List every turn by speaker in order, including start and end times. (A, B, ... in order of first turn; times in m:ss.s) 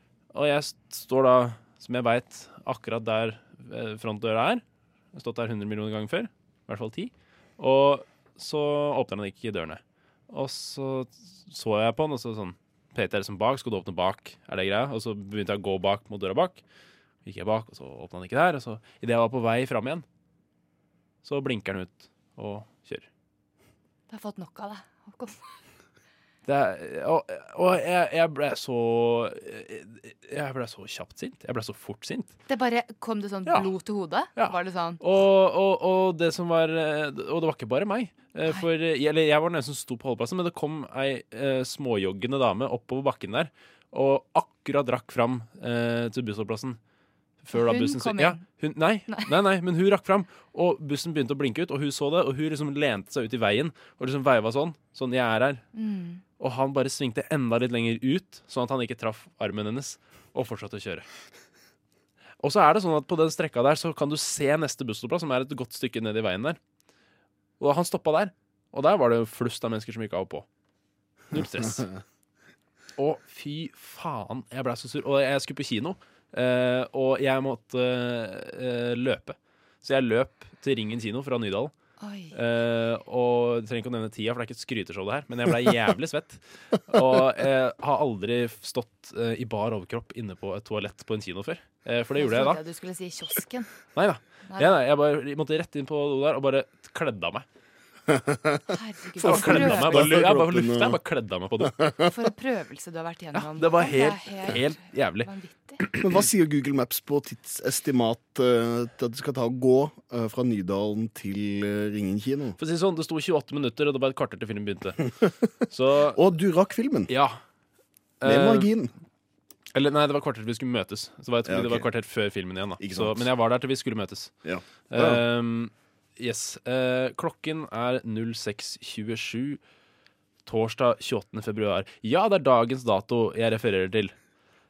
0:00.3-0:16.6 A
0:17.2-0:20.0 A
0:21.2-0:23.1 A
0:24.1-0:25.4 B
0:26.4-0:32.3 A
0:32.5-0:35.0 B
0:33.4-0:33.8 A
0:34.3-0:46.8 A
0:47.4-0:55.6 A
0:47.5-0:48.5 B
0:55.7-0:56.2 B
0:56.3-1:01.0 A
1:02.4-1:06.6 A
1:07.6-1:10.4 A
1:11.3-1:11.9 A
1:13.0-1:21.7 A
1:22.0-1:22.4 B
1:22.3-1:32.6 A
1:32.1-1:33.7 B
1:33.9-1:37.4 A
1:34.5-1:34.8 B
1:38.1-1:38.6 C
1:38.7-1:40.0 B
1:39.2-1:41.0 C
1:39.2-1:41.8 A
1:41.7-1:42.0 C
1:42.1-1:45.8 B
1:43.3-1:45.3 A
1:46.0-1:52.6 C
1:52.6-1:55.0 A
1:55.7-1:56.2 A
1:56.1-1:57.1 C
1:57.1-1:57.4 A
1:58.2-1:58.7 A
1:58.2-1:58.9 C
1:59.7-2:04.3 A
2:01.4-2:01.8 C
2:02.8-2:03.3 C
2:04.4-2:05.2 C
2:04.9-2:09.6 A
2:10.4-2:14.1 A